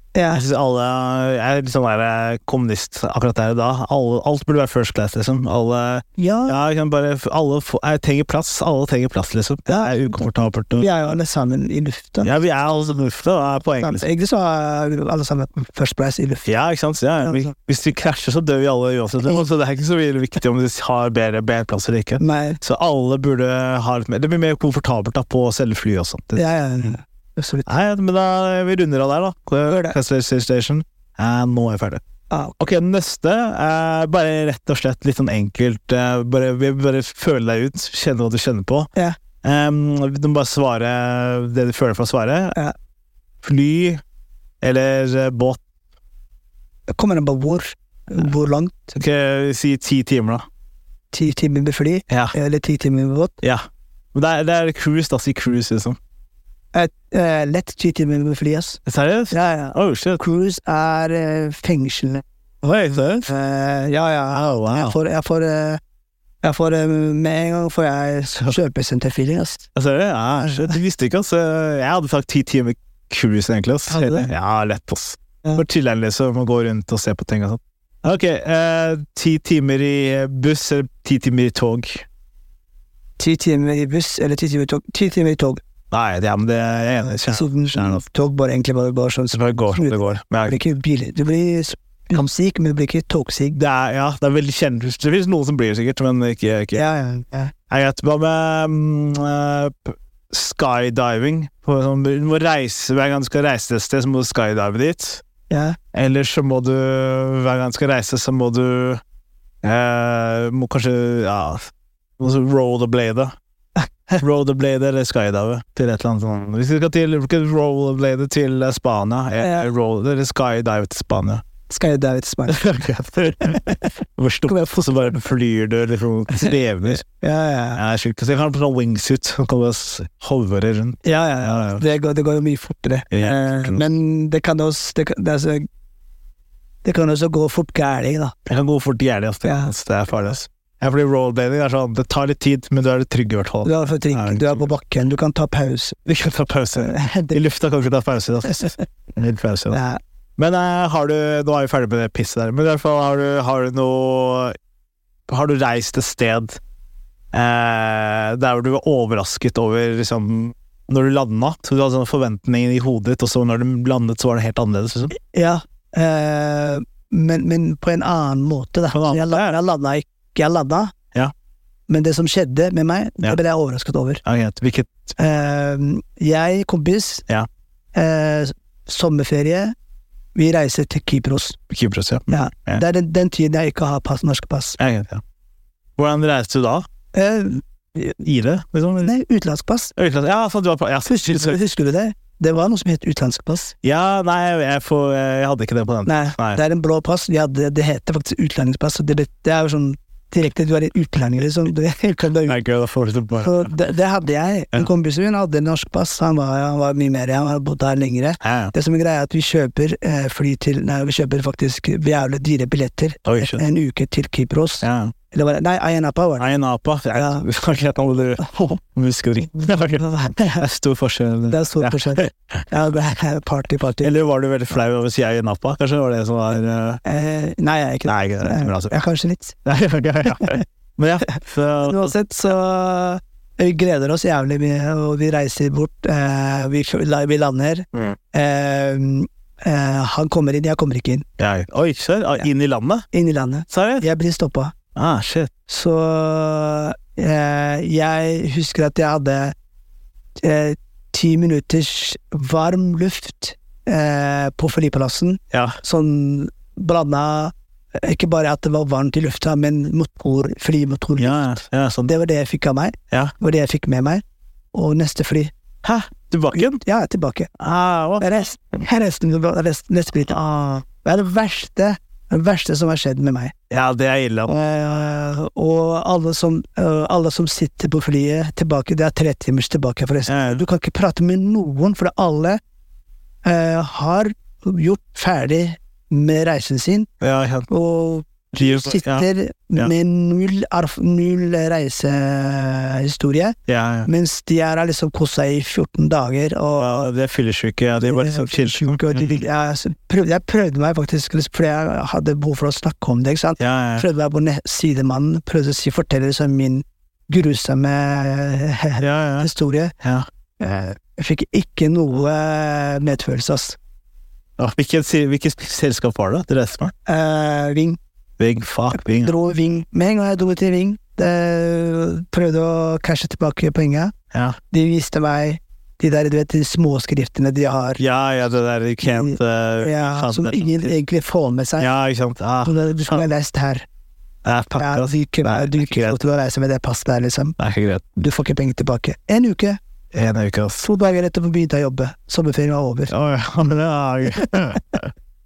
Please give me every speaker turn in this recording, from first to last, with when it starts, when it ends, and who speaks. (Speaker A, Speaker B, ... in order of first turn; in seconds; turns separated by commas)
Speaker A: 0.1-0.4, Speaker B: 0.3-10.9, Speaker A: 6.2-6.5, Speaker A: 9.7-10.1, Speaker A: 10.8-12.3, Speaker B: 12.2-14.1, Speaker A: 13.8-16.5, Speaker B: 16.4-26.5, Speaker A: 17.2-17.5, Speaker A: 22.2-22.6, Speaker A: 26.4-27.7, Speaker B: 27.7-32.0, Speaker A: 29.6-29.9, Speaker A: 32.3-32.5, Speaker B: 32.6-38.9, Speaker B: 39.4-42.6, Speaker B: 43.4-44.0, Speaker B: 44.6-45.6, Speaker A: 46.9-48.9, Speaker B: 48.9-50.5, Speaker A: 51.1-53.4, Speaker B: 52.1-52.3, Speaker B: 53.4-56.0, Speaker A: 56.7-58.8, Speaker B: 58.9-60.2, Speaker A: 59.3-62.2, Speaker B: 62.6-63.3, Speaker A: 63.2-65.8, Speaker B: 64.3-65.0, Speaker A: 66.4-69.7, Speaker B: 69.7-82.0, Speaker A: 70.5-70.7, Speaker A: 73.9-74.3, Speaker A: 83.2-85.6, Speaker B: 85.9-88.0, Speaker A: 87.3-93.6, Speaker B: 89.3-90.6, Speaker B: 93.5-96.8, Speaker A: 96.7-97.5, Speaker B: 97.7-105.2, Speaker A: 105.5-105.8, Speaker B: 105.9-109.0, Speaker B: 109.6-113.3, Speaker A: 113.8-114.2, Speaker B: 114.2-121.4, Speaker A: 119.4-119.7, Speaker A: 121.7-122.6, Speaker B: 122.5-127.0, Speaker A: 123.4-123.9, Speaker A: 124.5-124.8, Speaker A: 127.0-127.8, Speaker B: 127.7-131.8, Speaker A: 131.0-135.7, Speaker B: 133.1-133.8, Speaker A: 136.8-138.3, Speaker B: 138.4-144.7, Speaker A: 139.4-139.7, Speaker A: 143.6-146.0, Speaker B: 146.1-149.8, Speaker A: 146.8-147.4, Speaker A: 149.7-150.0, Speaker B: 150.4-154.6, Speaker B: 155.3-156.6, Speaker B: 157.3-165.1, Speaker A: 165.1-170.9, Speaker B: 168.9-169.6, Speaker A: 171.9-174.2, Speaker B: 174.2-175.1, Speaker A: 175.2-177.2, Speaker A: 177.9-179.7, Speaker A: 180.3-181.6, Speaker B: 181.7-182.8, Speaker A: 182.3-184.8, Speaker B: 184.8-185.2, Speaker B: 186.0-186.9, Speaker A: 187.1-188.1, Speaker B: 188.2-189.1, Speaker A: 189.0-189.9, Speaker B: 189.9-191.6, Speaker A: 191.1-193.7, Speaker B: 193.8-196.6, Speaker A: 196.1-202.6, Speaker B: 202.4-203.7, Speaker A: 203.4-216.4, Speaker B: 208.4-208.7, Speaker B: 213.2-213.6, Speaker B: 214.8-215.1, Speaker B: 216.4-222.6, Speaker A: 217.2-217.4, Speaker A: 218.4-218.8, Speaker A: 219.9-220.6, Speaker A: 221.5-224.1, Speaker B: 224.0-227.0, Speaker A: 227.0-229.6, Speaker B: 228.0-228.9, Speaker B: 229.6-232.2, Speaker A: 230.2-230.6, Speaker A: 231.8-241.2, Speaker B: 237.9-238.2, Speaker B: 241.4-243.1, Speaker A: 243.1-244.7, Speaker B: 243.7-244.1, Speaker B: 244.9-245.5, Speaker A: 245.7-249.5, Speaker A: 250.4-264.2, Speaker B: 255.5-255.8, Speaker B: 261.2-262.1, Speaker A: 264.7-265.5, Speaker B: 265.8-266.8, Speaker A: 266.5-267.5, Speaker B: 267.6-268.2, Speaker A: 268.2-270.4, Speaker B: 270.3-270.8, Speaker A: 270.9-273.5, Speaker B: 273.7-274.5, Speaker A: 274.5-282.6, Speaker B: 280.3-280.6, Speaker A: 283.4-287.1, Speaker B: 287.2-287.7, Speaker A: 287.7-296.9, Speaker B: 288.5-289.9, Speaker B: 293.7-294.1, Speaker B: 296.8-299.4, Speaker A: 298.0-309.9, Speaker B: 303.6-304.1, Speaker B: 309.0-310.2, Speaker A: 310.6-313.8, Speaker B: 314.6-316.9, Speaker A: 317.1-318.0, Speaker B: 318.4-319.3, Speaker A: 319.2-324.1, Speaker B: 324.3-324.6, Speaker A: 324.7-328.0, Speaker B: 328.0-330.9, Speaker A: 329.0-331.9, Speaker B: 331.8-333.2, Speaker A: 332.6-333.9, Speaker B: 334.4-336.2, Speaker A: 334.8-337.6, Speaker B: 337.6-338.2, Speaker A: 338.2-339.8, Speaker B: 340.1-340.8, Speaker A: 340.8-343.1, Speaker B: 343.1-345.1